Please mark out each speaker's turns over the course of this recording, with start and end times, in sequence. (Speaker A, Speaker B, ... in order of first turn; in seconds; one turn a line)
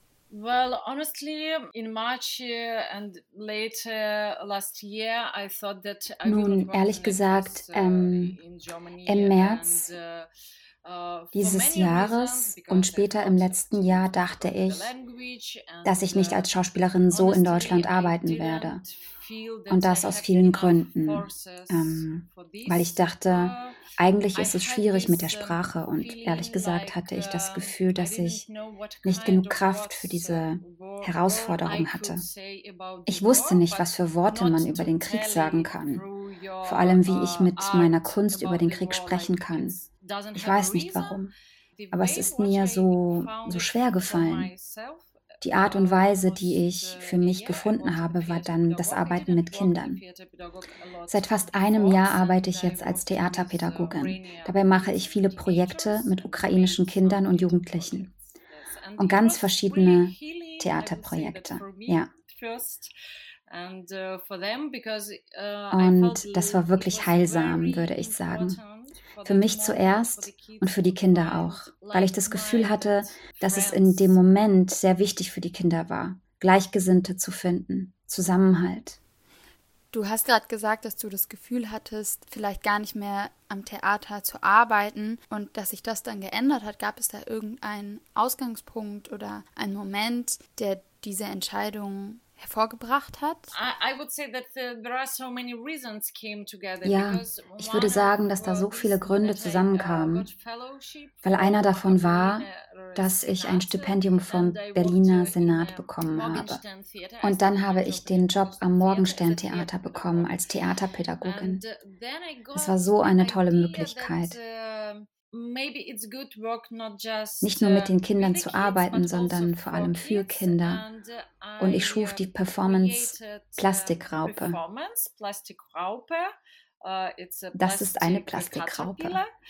Speaker A: 0.3-10.3
Speaker B: 6.2-8.4
Speaker B: 9.0-9.9
Speaker A: 10.8-16.5
Speaker B: 11.3-14.9
Speaker B: 15.8-18.8
Speaker A: 17.1-62.9
Speaker B: 19.7-28.4
Speaker B: 29.0-32.2
Speaker B: 33.1-36.0
Speaker B: 36.6-39.8
Speaker B: 40.3-41.3
Speaker B: 41.9-44.5
Speaker B: 45.4-50.0
Speaker B: 51.1-58.1
Speaker B: 59.0-62.1
Speaker A: 63.5-74.2
Speaker B: 65.7-68.6
Speaker B: 69.2-79.0
Speaker C: 79.9-93.5
Speaker A: 93.5-110.4
Speaker B: 96.8-100.3
Speaker B: 101.2-106.6
Speaker B: 107.2-111.6
Speaker A: 111.2-129.3
Speaker B: 112.5-114.4
Speaker B: 117.4-120.8
Speaker B: 121.6-124.6
Speaker B: 127.5-129.2